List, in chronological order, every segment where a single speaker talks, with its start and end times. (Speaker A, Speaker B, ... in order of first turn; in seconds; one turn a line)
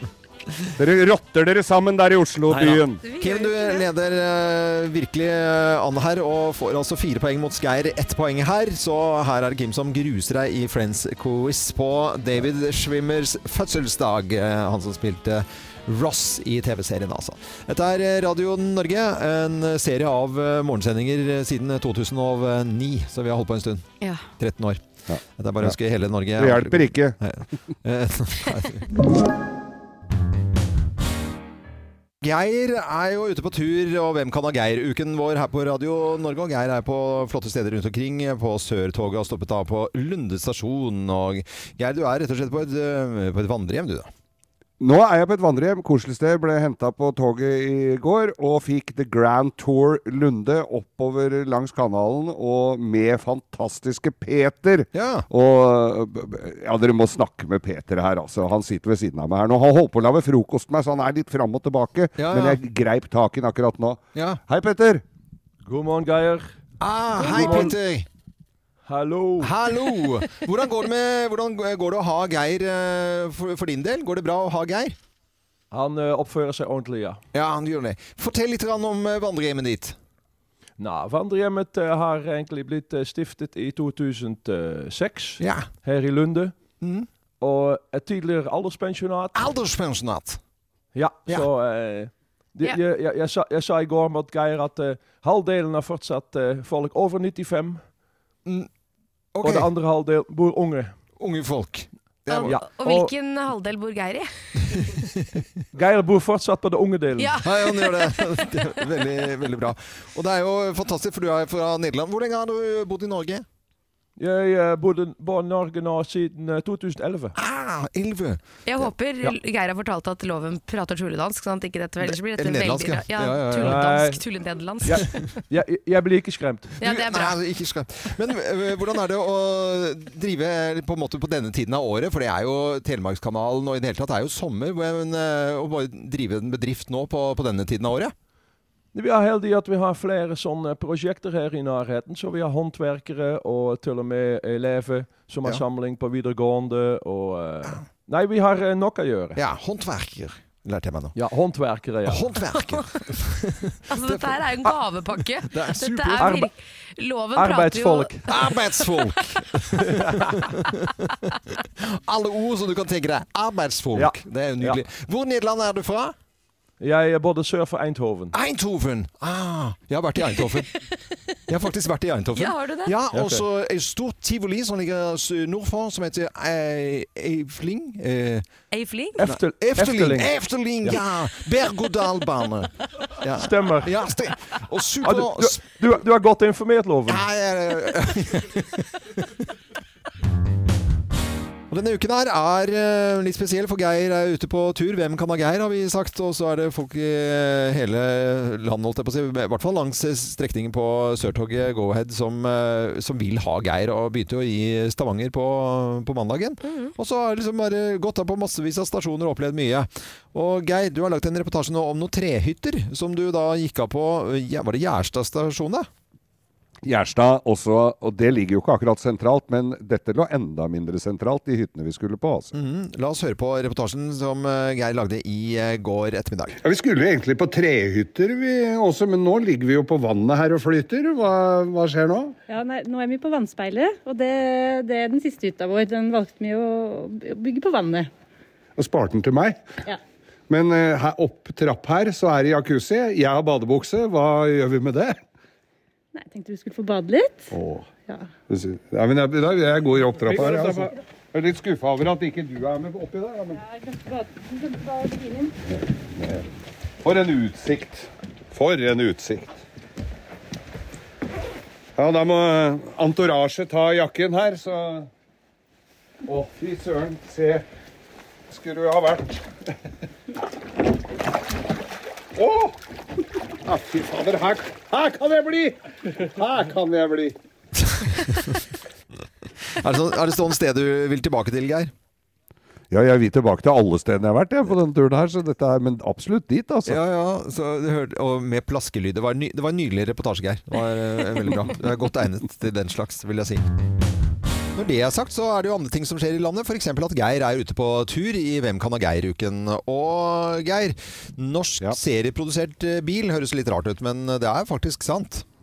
Speaker A: 0.8-3.0
Speaker B: 2.5-23.9
Speaker C: 3.0-3.9
Speaker B: 24.4-24.8
Speaker A: 25.1-25.8
Speaker B: 25.4-28.9
Speaker A: 26.4-27.2
Speaker B: 32.2-44.1
Speaker A: 44.8-65.0
Speaker B: 54.9-55.3
Speaker B: 62.2-62.6
Speaker B: 64.2-64.4
Speaker D: 65.7-66.5
Speaker B: 66.8-68.1
Speaker D: 67.2-67.7
Speaker D: 68.8-69.5
Speaker B: 69.4-75.0
Speaker D: 75.7-77.2
Speaker B: 77.3-80.0
Speaker D: 80.8-86.6
Speaker B: 85.4-85.7
Speaker B: 86.8-87.1
Speaker D: 87.4-89.5
Speaker B: 89.3-90.4
Speaker D: 90.9-97.8
Speaker B: 99.3-99.7
Speaker D: 99.4-101.0
Speaker B: 101.2-102.6
Speaker C: 102.3-104.8
Speaker D: 102.5-103.1
Speaker D: 105.7-107.4
Speaker C: 107.2-108.7
Speaker B: 107.4-113.5
Speaker D: 114.2-117.3
Speaker B: 117.3-119.3
Speaker C: 118.7-125.2
Speaker B: 122.0-123.9
Speaker D: 123.6-124.2
Speaker D: 124.8-126.8
Speaker C: 126.8-127.4
Speaker B: 126.8-138.1
Speaker D: 138.9-149.4
Speaker B: 149.4-151.2
Speaker D: 151.2-152.3
Speaker B: 152.1-156.4
Speaker C: 153.9-158.6
Speaker D: 156.2-156.5
Speaker D: 157.3-158.3
Speaker B: 158.3-166.2
Speaker D: 160.0-160.2
Speaker D: 164.0-164.8
Speaker D: 166.8-168.3
Speaker B: 168.3-170.7
Speaker B: 171.5-178.5
Speaker C: 172.3-173.0
Speaker C: 178.7-179.2
Speaker D: 179.2-181.0
Speaker B: 179.2-185.6
Speaker D: 183.4-184.0
Speaker D: 185.0-187.3
Speaker B: 187.1-189.2
Speaker B: 191.7-215.9
Speaker C: 206.6-206.9
Speaker A: 216.8-222.5
Speaker B: 222.5-226.6
Speaker A: 226.6-232.4
Speaker E: 232.5-238.1
Speaker A: 238.8-239.6
Speaker A: 240.5-245.2
Speaker E: 246.1-247.5
Speaker A: 247.5-247.9
Speaker A: 248.5-253.6
Speaker E: 253.6-255.5
Speaker A: 256.2-256.4
Speaker A: 257.0-259.6
Speaker A: 262.0-265.1
Speaker A: 266.2-267.6
Speaker A: 268.5-269.4
Speaker A: 272.4-272.8
Speaker A: 273.6-277.4
Speaker B: 277.9-278.6
Speaker B: 279.7-281.9
Speaker A: 282.9-287.0
Speaker B: 286.9-293.7
Speaker B: 294.7-305.5